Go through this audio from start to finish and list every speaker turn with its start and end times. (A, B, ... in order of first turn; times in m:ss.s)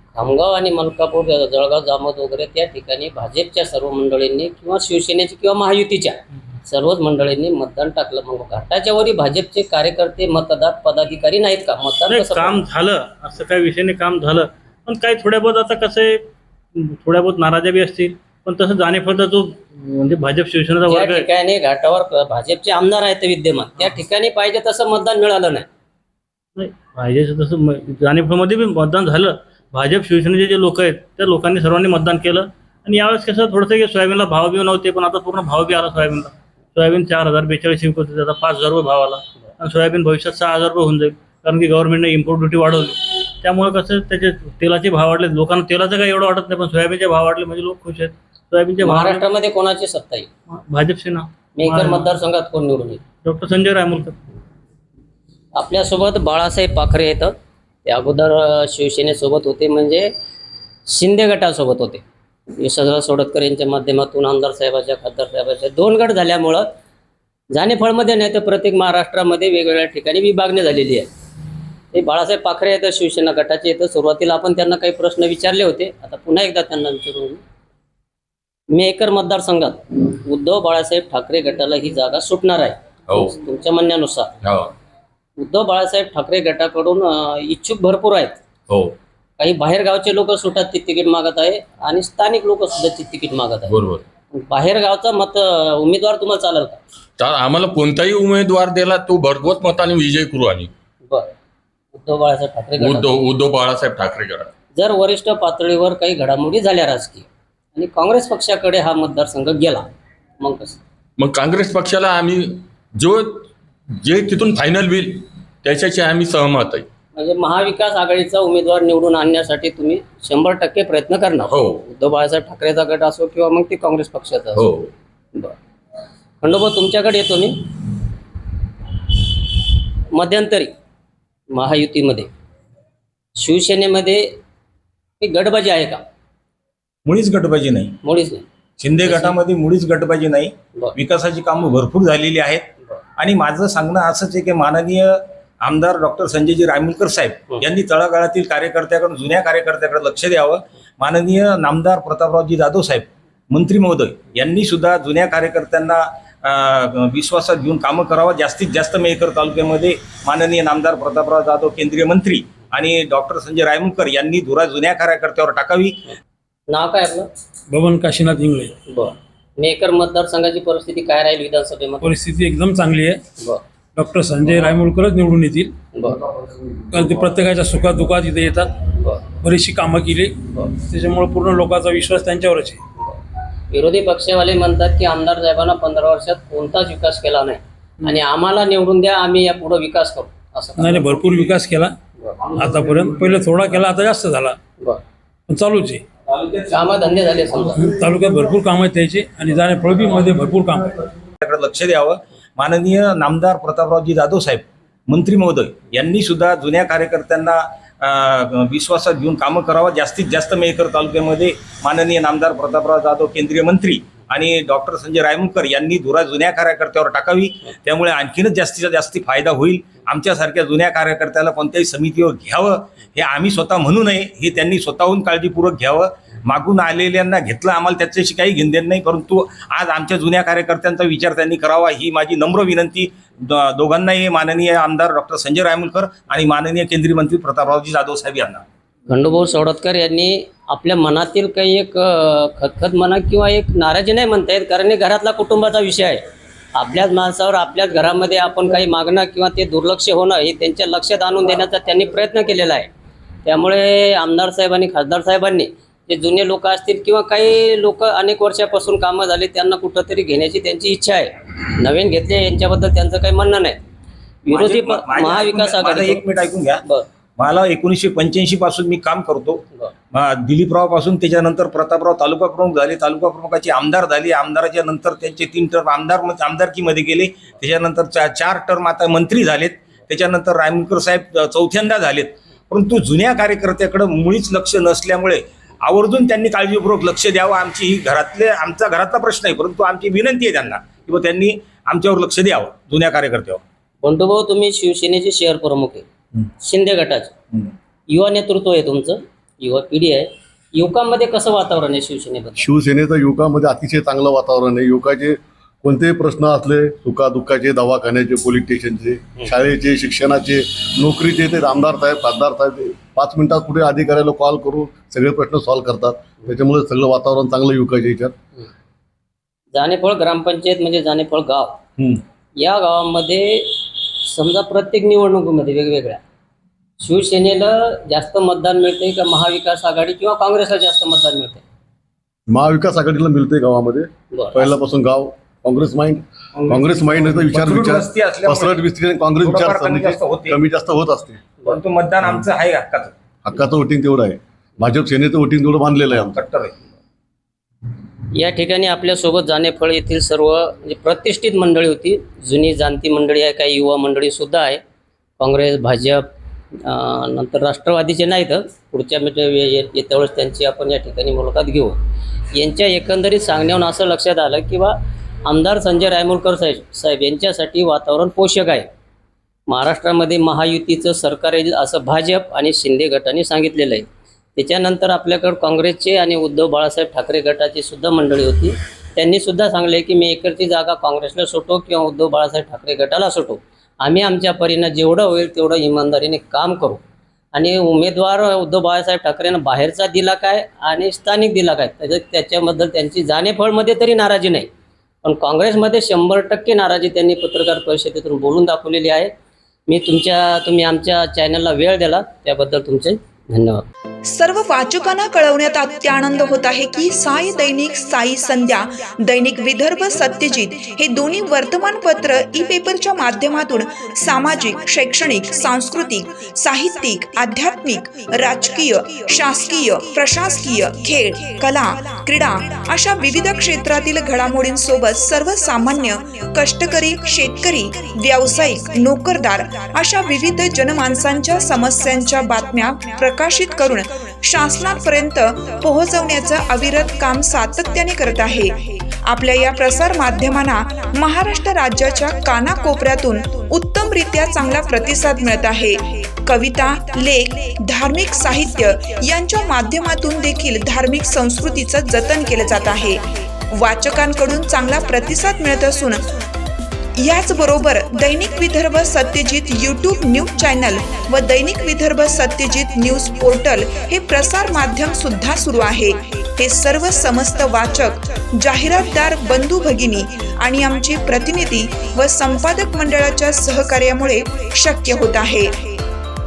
0:00.2-0:12.6 A
0:12.1-0:21.3 B
0:20.9-0:25.7 A
0:26.6-0:49.2 B
0:48.8-0:50.3 A
0:50.5-0:52.1 B
0:51.6-0:53.0 A
0:53.2-0:54.2 B
0:55.6-0:57.3 A
0:57.8-1:00.1 A
1:00.9-1:02.0 A
1:02.6-1:06.7 A
1:07.5-1:11.1 A
1:11.9-1:17.4 A
1:18.7-1:24.3 A
1:24.4-1:24.7 C
1:25.4-1:28.4 A
1:28.7-1:29.0 C
1:29.4-1:33.7 A
1:33.7-1:34.0 C
1:34.3-1:36.8 A
1:37.2-1:40.7 C
1:42.0-1:43.1 A
1:42.8-1:44.5 C
1:44.8-1:49.9 A
1:50.4-1:50.8 A
1:51.2-1:56.9 C
1:57.2-2:04.7 A
2:01.4-2:01.8 C
2:04.6-2:04.9 C
2:06.4-2:07.6 A
2:10.1-2:10.7 A
2:11.5-2:12.3 A
2:13.4-2:14.4 A
2:15.2-2:16.0 A
2:17.1-2:18.0 D
2:18.0-2:18.4 A
2:18.8-2:22.6 D
2:19.0-2:19.4 A
2:23.2-2:46.0 D
2:46.7-2:47.3 A
2:47.7-2:48.7 E
2:48.9-2:52.2 A
2:52.0-2:53.2 E
2:54.0-2:55.7 E
2:56.9-2:58.7 E
2:59.4-3:02.8 E
3:03.7-3:11.1 A
3:10.8-3:12.0 E
3:12.5-3:14.6 E
3:15.5-3:16.0 E
3:16.7-3:17.9 A
3:17.8-3:20.9 E
3:21.4-3:58.6 D
3:59.1-4:06.2 A
4:06.8-4:12.9 A
4:13.4-4:23.8 A
4:24.5-4:26.2 A
4:24.5-4:26.8 D
4:27.4-4:29.6 D
4:30.1-4:53.6 D
4:54.0-4:56.0 A
4:56.6-4:57.3 A
4:58.1-5:02.7 A
5:02.6-5:18.3 F
5:19.7-5:21.8 A
5:22.6-5:26.2 A
5:27.0-5:31.6 A
5:32.5-5:41.4 F
5:34.3-5:34.7 A
5:36.6-5:38.9 D
5:39.4-5:40.6 D
5:41.7-5:43.1 D
5:43.4-5:46.4 F
5:46.2-5:46.7 D
5:48.3-5:54.8 A
5:55.4-5:56.2 A
5:56.8-6:02.0 A
6:02.5-6:08.9 A
6:09.7-6:27.0 A
6:27.6-6:34.7 A
6:35.2-6:39.3 A
6:39.9-6:43.8 A
6:44.3-7:36.4 G
7:37.2-7:56.0 G